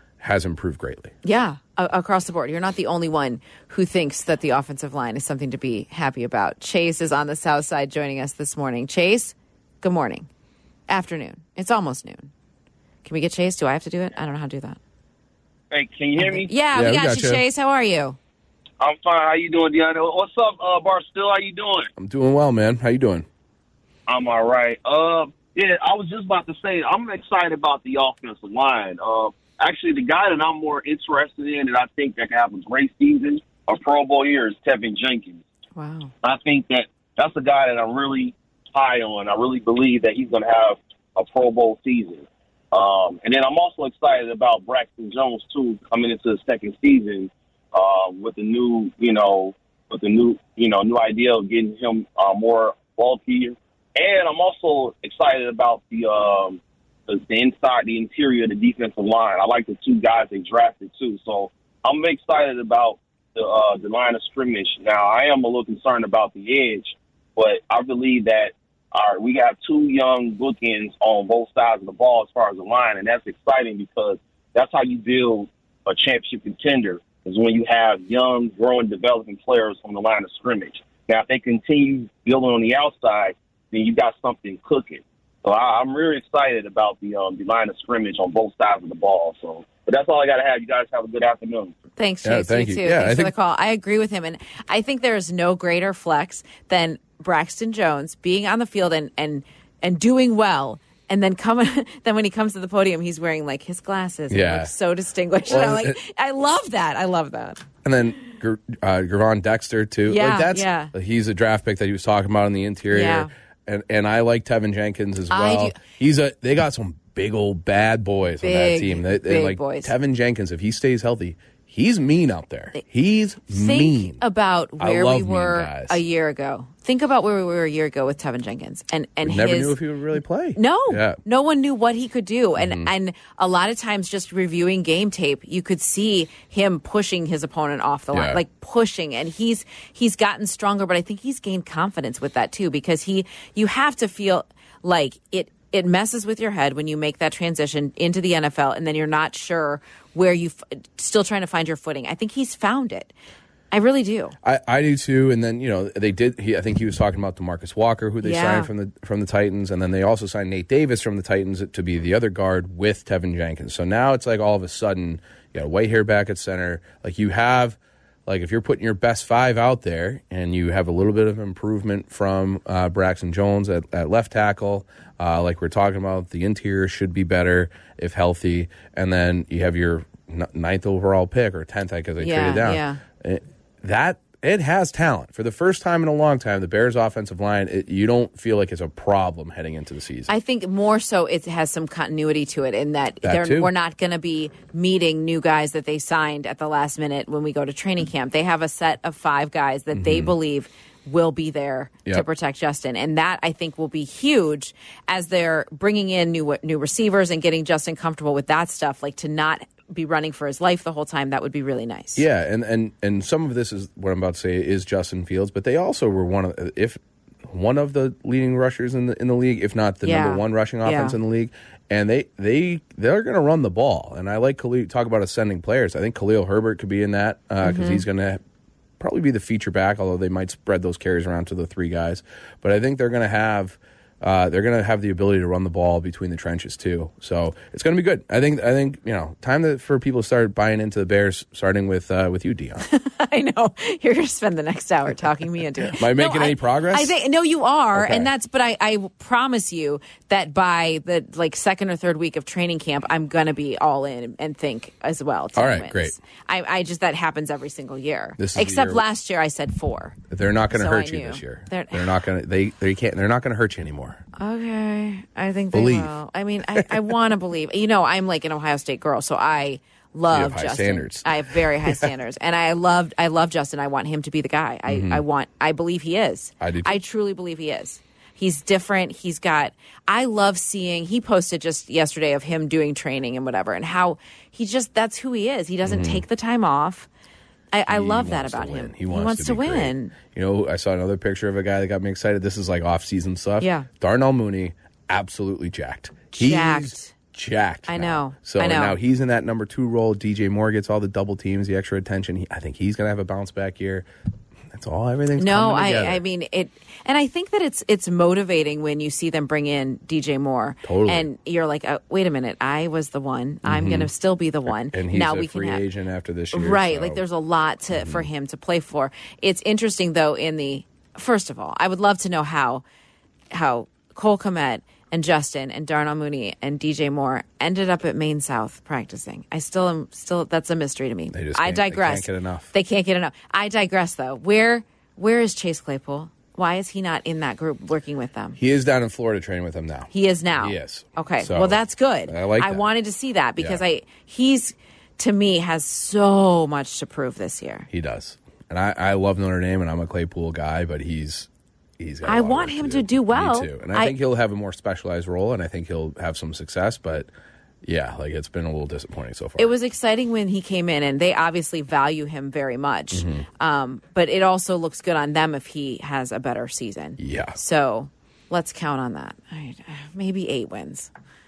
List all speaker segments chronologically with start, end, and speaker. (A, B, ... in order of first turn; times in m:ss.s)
0:00.2-0:01.1 A
0:01.2-0:10.3 B
0:10.9-0:12.3 B
0:13.0-0:14.8 B
0:15.7-0:16.5 C
0:16.2-0:18.2 B
0:16.7-0:17.4 A
0:18.8-0:21.9 C
0:22.0-0:23.3 A
0:24.1-0:35.4 C
0:35.8-0:36.1 B
0:36.2-1:31.7 C
1:32.0-1:47.6 B
1:32.2-1:33.3 A
1:44.3-1:44.7 A
1:45.4-1:46.0 A
1:47.8-2:04.2 A
1:50.1-1:50.9 B
1:52.9-1:53.3 B
1:55.3-1:55.8 B
1:58.4-1:59.9 B
2:03.5-2:09.8 B
2:04.8-2:06.0 A
2:09.2-2:11.2 A
2:10.5-2:33.1 B
2:12.6-2:12.9 A
2:18.1-2:18.4 A
2:33.7-2:34.3 B
2:34.4-3:10.3 A
2:38.2-2:38.7 B
3:02.2-3:03.0 B
3:10.3-3:32.2 B
3:13.2-3:13.7 A
3:19.9-3:20.3 A
3:32.2-3:48.4 A
3:40.0-3:41.2 B
3:47.6-3:48.0 B
3:49.0-4:02.8 A
4:02.8-4:20.2 B
4:05.8-4:07.1 A
4:07.9-4:08.3 A
4:15.6-4:16.2 A
4:18.4-4:19.0 A
4:20.3-4:24.2 A
4:20.7-4:22.1 B
4:24.4-4:47.1 B
4:25.7-4:26.1 A
4:30.3-4:32.1 A
4:34.9-4:35.2 A
4:36.6-4:37.0 A
4:45.8-4:46.2 A
4:47.7-4:50.1 B
4:47.9-5:04.1 A
4:53.6-4:53.9 B
4:56.3-4:57.1 B
4:57.9-4:59.0 B
5:04.7-5:06.2 A
5:05.4-5:15.8 B
5:10.8-5:11.3 A
5:13.6-5:14.1 A
5:14.6-5:17.2 A
5:16.5-5:22.8 B
5:17.9-5:18.2 A
5:23.5-5:38.6 B
5:31.3-5:32.7 A
5:38.6-5:42.8 A
5:40.1-5:47.9 B
5:47.9-5:57.3 A
5:52.2-5:54.1 B
5:57.8-5:59.8 A
5:59.6-6:11.1 B
6:03.1-6:03.4 A
6:07.2-6:07.6 A